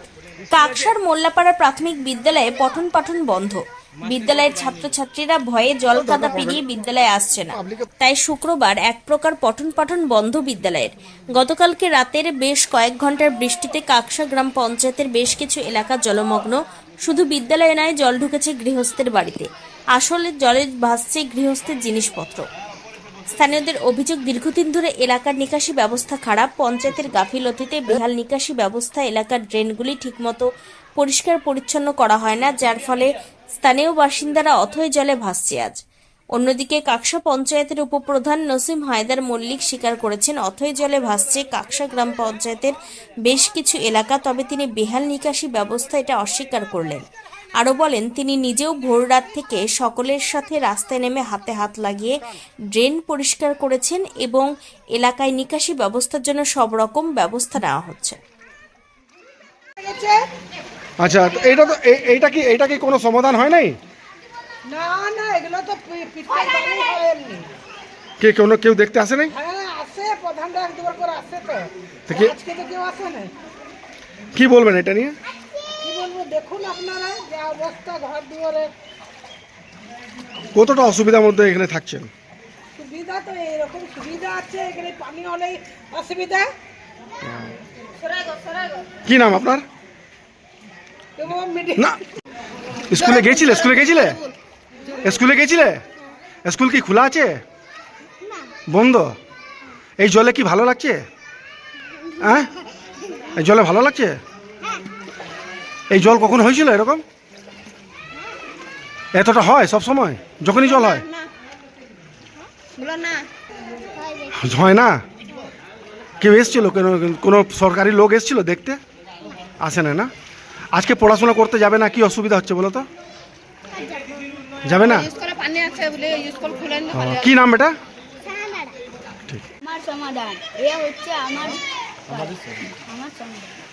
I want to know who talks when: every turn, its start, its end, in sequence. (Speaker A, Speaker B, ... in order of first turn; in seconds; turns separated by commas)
Speaker A: 0.5-22.4, Speaker B: 5.9-6.6, Speaker B: 7.5-7.9, Speaker A: 23.4-30.5, Speaker A: 31.0-35.8, Speaker A: 36.4-42.8, Speaker A: 43.3-47.0, Speaker A: 47.6-52.1, Speaker A: 52.7-58.2, Speaker C: 59.8-60.2, Speaker B: 61.0-63.8, Speaker C: 64.7-67.5, Speaker B: 68.2-69.3, Speaker C: 69.3-73.3, Speaker B: 72.1-72.3, Speaker B: 74.3-75.2, Speaker C: 75.8-78.7, Speaker B: 80.5-82.1, Speaker C: 82.8-86.5, Speaker B: 87.2-87.5, Speaker B: 89.0-89.6, Speaker C: 91.2-91.9, Speaker B: 92.9-94.2, Speaker B: 95.0-95.8, Speaker B: 96.5-97.4, Speaker B: 98.7-99.2, Speaker B: 100.0-101.0, Speaker B: 102.2-102.5, Speaker B: 103.3-104.2, Speaker B: 105.9-107.0, Speaker B: 109.1-111.1, Speaker B: 114.3-115.0, Speaker B: 116.2-118.8, Speaker B: 119.6-120.1, Speaker B: 120.7-122.9, Speaker B: 124.7-125.1, Speaker D: 125.2-126.8, Speaker B: 126.9-127.8, Speaker D: 128.3-128.8, Speaker D: 129.7-133.5